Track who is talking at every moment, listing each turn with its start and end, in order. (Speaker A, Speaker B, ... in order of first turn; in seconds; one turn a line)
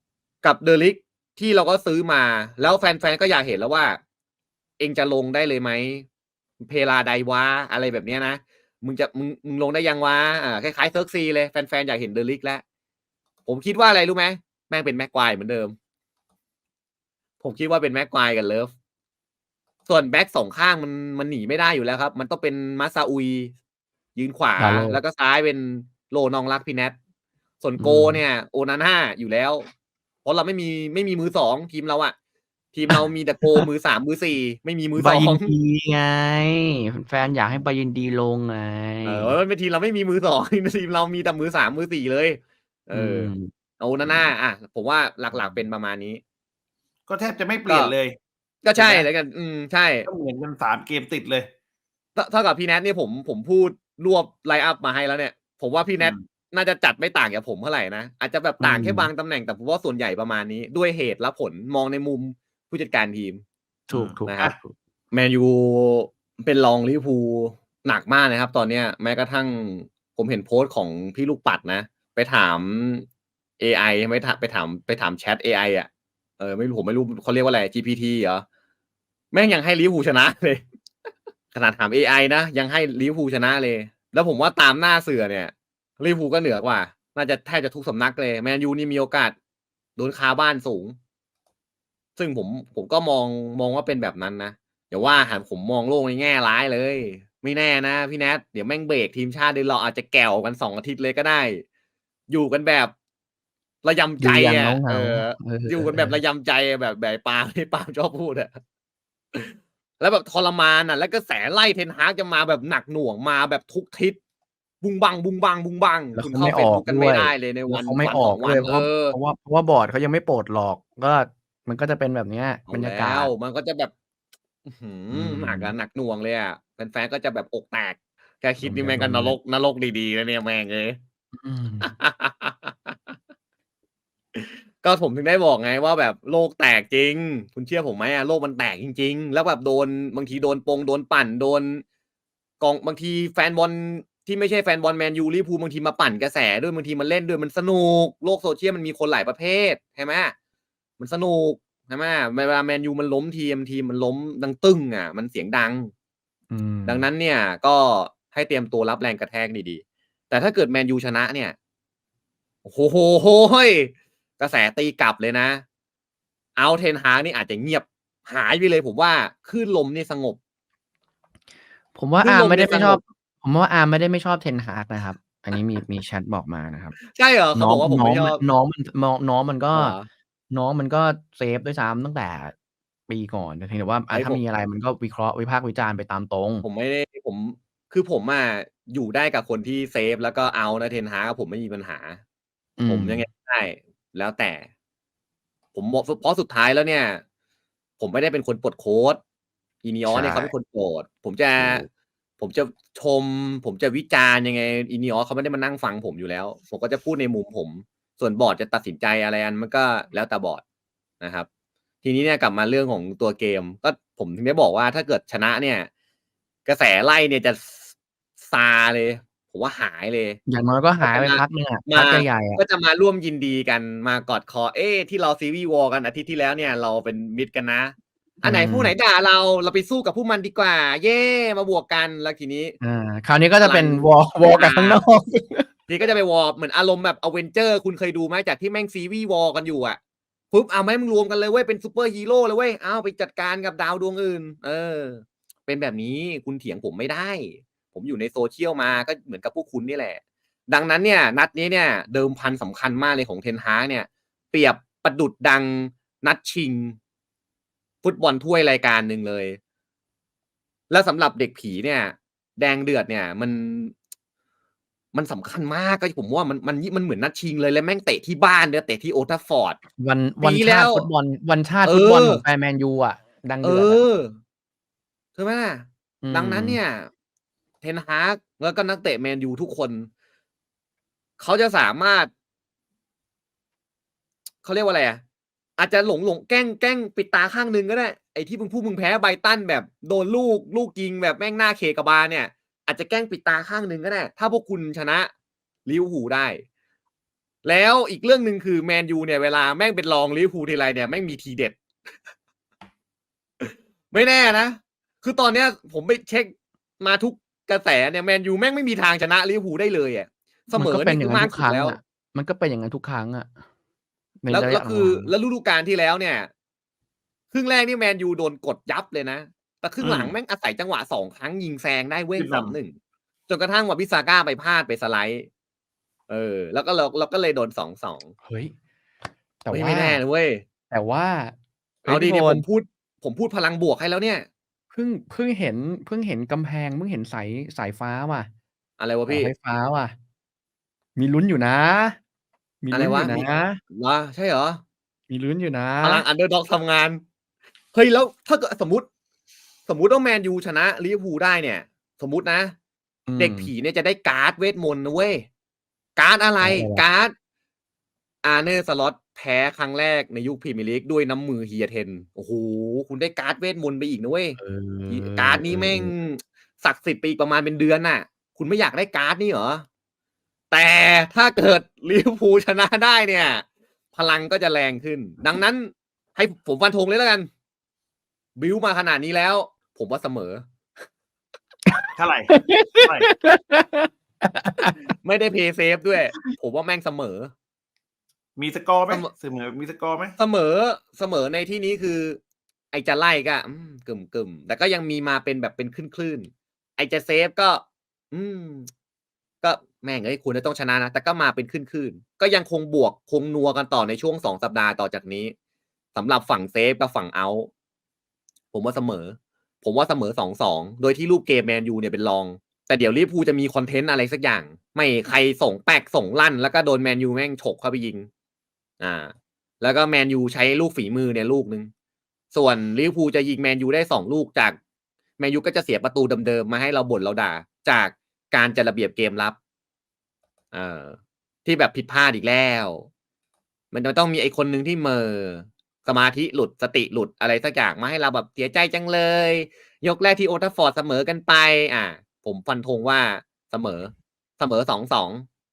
Speaker A: 0.4-4.0
Speaker A: 4.8-6.1
Speaker A: 6.6-12.6
Speaker A: 13.5-15.8
Speaker A: 17.4-18.7
Speaker A: 19.9-23.5
Speaker A: 24.1-26.9
Speaker B: 24.6-25.0
Speaker A: 27.6-29.7
Speaker B: 27.8-28.2
Speaker A: 30.2-32.1
Speaker A: 32.7-35.5
Speaker B: 35.0-39.4
Speaker A: 39.0-46.2
Speaker B: 42.9-43.5
Speaker B: 44.0-44.3
Speaker B: 45.3-45.6
Speaker C: 47.1-48.2
Speaker A: 47.7-48.0
Speaker A: 48.6-50.1
Speaker C: 48.8-49.1
Speaker C: 50.1-51.5
Speaker A: 52.2-63.4
Speaker B: 58.6-59.1
Speaker B: 63.9-64.7
Speaker C: 63.9-64.3
Speaker A: 64.3-64.5
Speaker A: 65.1-73.0
Speaker A: 73.6-78.4
Speaker A: 79.3-80.6
Speaker A: 81.5-89.3
Speaker A: 90.0-91.0
Speaker A: 92.2-101.6
Speaker A: 102.3-102.9
Speaker A: 103.8-108.6
Speaker B: 104.2-106.2
Speaker A: 109.3-114.2
Speaker A: 114.8-119.2
Speaker B: 116.2-123.3
Speaker A: 122.7-123.9
Speaker A: 124.7-131.0
Speaker B: 125.1-125.7
Speaker B: 128.6-129.4
Speaker B: 131.4-131.9
Speaker A: 131.8-133.1
Speaker A: 134.3-141.8
Speaker A: 142.6-150.3
Speaker A: 151.0-155.9
Speaker B: 156.5-157.1
Speaker A: 156.9-161.6
Speaker A: 162.7-165.6
Speaker A: 166.6-170.4
Speaker B: 171.9-177.0
Speaker A: 172.2-173.0
Speaker A: 177.1-178.4
Speaker B: 177.6-180.0
Speaker A: 179.7-180.1
Speaker B: 180.5-182.5
Speaker B: 183.1-186.7
Speaker A: 184.1-184.4
Speaker A: 186.6-192.2
Speaker B: 192.8-193.2
Speaker A: 192.9-194.7
Speaker A: 195.7-197.2
Speaker A: 198.0-199.2
Speaker A: 199.8-201.8
Speaker B: 200.1-200.5
Speaker B: 201.6-201.9
Speaker A: 202.4-210.6
Speaker A: 211.2-211.5
Speaker A: 212.0-215.9
Speaker A: 216.7-217.9
Speaker A: 218.4-220.4
Speaker B: 220.5-222.6
Speaker A: 221.0-232.8
Speaker B: 228.4-228.9
Speaker B: 232.8-235.7
Speaker A: 233.6-235.0
Speaker A: 235.9-240.0
Speaker A: 240.5-257.0
Speaker A: 258.0-259.6
Speaker A: 260.9-263.9
Speaker A: 265.1-269.8
Speaker B: 269.9-274.0
Speaker A: 270.4-271.1
Speaker A: 271.8-272.4
Speaker A: 273.6-274.3
Speaker A: 275.4-277.1
Speaker B: 276.2-276.8
Speaker A: 277.8-280.1
Speaker A: 281.4-282.3
Speaker A: 284.6-285.2
Speaker A: 285.8-295.3
Speaker A: 295.9-296.6
Speaker A: 297.6-301.8
Speaker A: 303.6-312.0
Speaker B: 310.8-313.5
Speaker B: 314.4-315.3
Speaker A: 314.5-316.5
Speaker A: 317.5-323.0
Speaker C: 320.0-320.3
Speaker C: 322.4-322.8
Speaker A: 323.5-325.5
Speaker A: 326.3-328.3
Speaker B: 328.4-328.7
Speaker B: 329.6-330.2
Speaker A: 329.7-330.6
Speaker B: 330.9-332.6
Speaker A: 332.1-334.5
Speaker B: 334.9-338.5
Speaker A: 339.0-339.5
Speaker B: 339.3-340.1
Speaker B: 341.2-342.2
Speaker B: 342.8-343.8
Speaker A: 342.9-344.8
Speaker B: 345.3-346.2
Speaker A: 346.0-347.2
Speaker A: 347.9-349.1
Speaker A: 349.9-352.7
Speaker B: 353.3-353.7
Speaker A: 353.4-355.5
Speaker A: 356.2-357.3
Speaker B: 356.6-357.0
Speaker A: 358.4-364.6
Speaker B: 364.6-366.1
Speaker A: 365.1-369.8
Speaker A: 370.7-377.5
Speaker A: 378.6-380.6
Speaker B: 381.9-385.0
Speaker C: 382.1-383.3
Speaker A: 385.2-387.5
Speaker C: 388.6-390.4
Speaker A: 390.4-392.4
Speaker A: 392.9-398.9
Speaker A: 399.6-405.5
Speaker A: 406.1-407.7
Speaker A: 408.7-418.3
Speaker A: 419.0-421.9
Speaker A: 422.5-424.8
Speaker A: 425.4-429.6
Speaker A: 430.7-433.1
Speaker A: 433.9-445.5